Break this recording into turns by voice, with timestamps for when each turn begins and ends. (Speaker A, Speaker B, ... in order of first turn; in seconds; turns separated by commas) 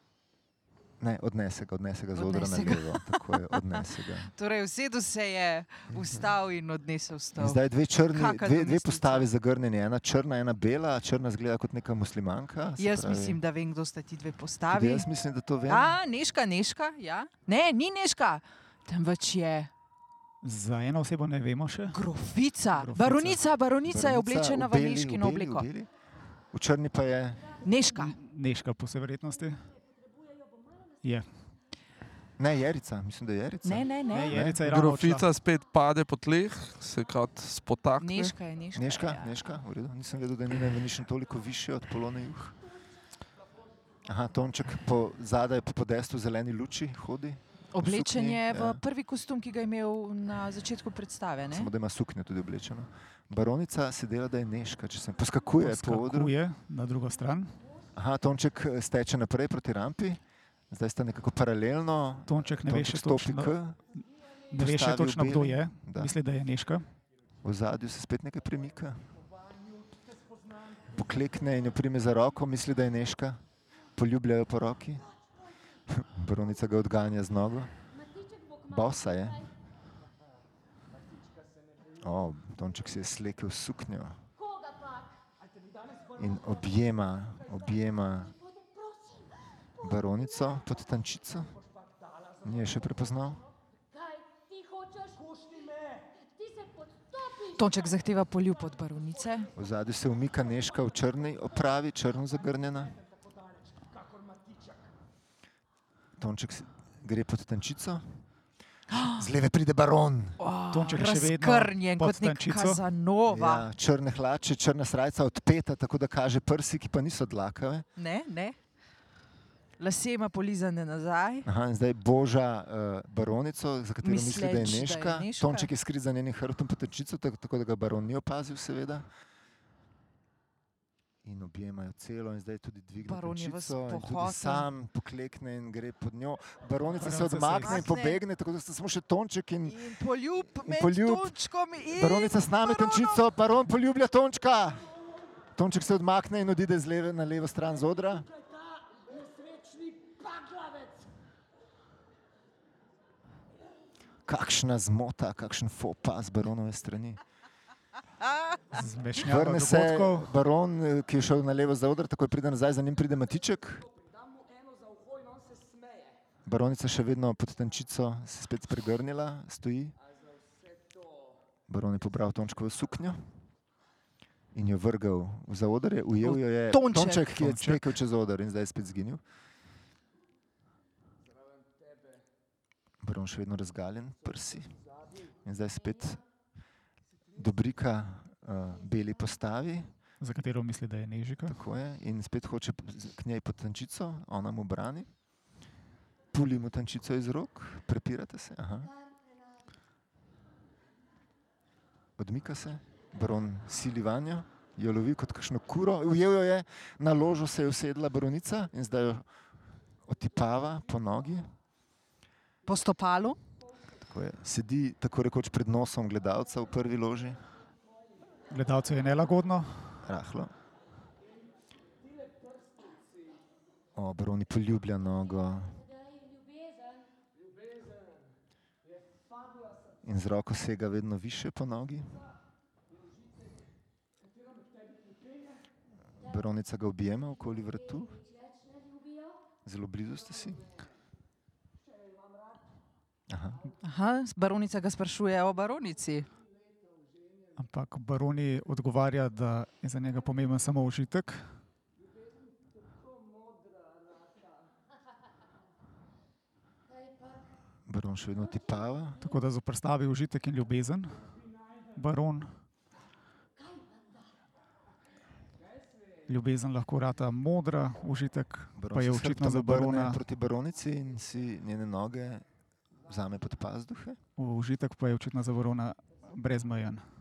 Speaker A: 1.0-4.3, Speaker B: 2.1-9.3, Speaker A: 7.3-13.4, Speaker B: 12.8-15.1, Speaker A: 14.7-16.0, Speaker B: 15.7-19.7, Speaker C: 20.4-22.1, Speaker B: 21.9-25.7, Speaker C: 22.7-23.4, Speaker A: 23.9-25.9, Speaker A: 26.5-27.5, Speaker B: 27.6-28.2, Speaker C: 27.9-29.6, Speaker D: 29.3-31.2, Speaker C: 31.0-31.3, Speaker A: 32.4-34.6, Speaker B: 33.6-34.4, Speaker C: 34.1-35.3, Speaker E: 34.6-38.4, Speaker B: 38.0-39.3, Speaker A: 38.7-42.6, Speaker A: 44.1-48.8, Speaker B: 47.7-51.7, Speaker A: 51.5-56.4, Speaker C: 55.6-57.6, Speaker D: 57.1-57.9, Speaker A: 57.9-63.8, Speaker C: 62.3-63.5, Speaker D: 64.0-64.5, Speaker C: 64.5-66.9, Speaker A: 64.5-66.2, Speaker A: 67.4-69.1, Speaker A: 70.9-73.4, Speaker A: 73.9-75.0, Speaker A: 75.9-77.7, Speaker D: 77.9-79.5, Speaker A: 78.7-79.5, Speaker A: 82.0-84.2, Speaker D: 84.4-85.2, Speaker A: 86.2-88.3, Speaker D: 87.6-90.7, Speaker A: 89.8-91.5, Speaker A: 92.4-93.4, Speaker D: 93.9-98.6, Speaker B: 97.6-99.5, Speaker A: 99.5-103.0, Speaker A: 106.2-108.2, Speaker B: 108.9-109.3, Speaker A: 108.9-110.4, Speaker B: 110.4-113.7, Speaker C: 110.7-112.8, Speaker A: 113.2-117.9, Speaker B: 118.0-118.6, Speaker B: 119.8-121.5, Speaker A: 121.5-129.1, Speaker B: 124.0-125.7, Speaker A: 131.2-139.9, Speaker B: 133.0-134.7, Speaker C: 136.9-137.9, Speaker B: 137.6-138.2, Speaker B: 139.7-143.2, Speaker A: 140.5-144.9, Speaker A: 145.5-148.3, Speaker A: 154.3-157.2, Speaker C: 158.8-160.3, Speaker A: 159.2-163.9, Speaker A: 166.4-170.0, Speaker A: 171.7-173.2, Speaker A: 174.5-179.2, Speaker B: 176.2-177.3, Speaker C: 177.3-178.0, Speaker A: 183.0-184.8, Speaker A: 185.4-186.2, Speaker D: 185.8-186.2, Speaker A: 187.4-189.9, Speaker D: 188.9-189.3, Speaker C: 190.2-191.6, Speaker A: 191.4-195.1, Speaker A: 196.3-198.9, Speaker D: 198.8-199.7, Speaker A: 202.2-209.3, Speaker A: 210.0-211.5, Speaker B: 212.7-213.4, Speaker A: 214.0-217.4, Speaker C: 218.5-220.0, Speaker A: 220.0-220.5, Speaker A: 223.9-225.8, Speaker D: 225.2-227.1, Speaker A: 230.0-232.2, Speaker D: 236.2-236.5, Speaker A: 236.2-238.1, Speaker D: 237.2-239.4, Speaker A: 239.7-240.6, Speaker A: 243.3-243.7, Speaker B: 243.8-246.3, Speaker C: 247.6-251.5, Speaker D: 256.9-257.5, Speaker A: 257.9-259.3, Speaker D: 258.4-259.3, Speaker C: 259.2-261.3, Speaker C: 261.9-262.6, Speaker D: 263.6-264.3, Speaker C: 266.3-270.2, Speaker A: 268.8-272.5, Speaker A: 273.1-274.2, Speaker C: 274.4-277.1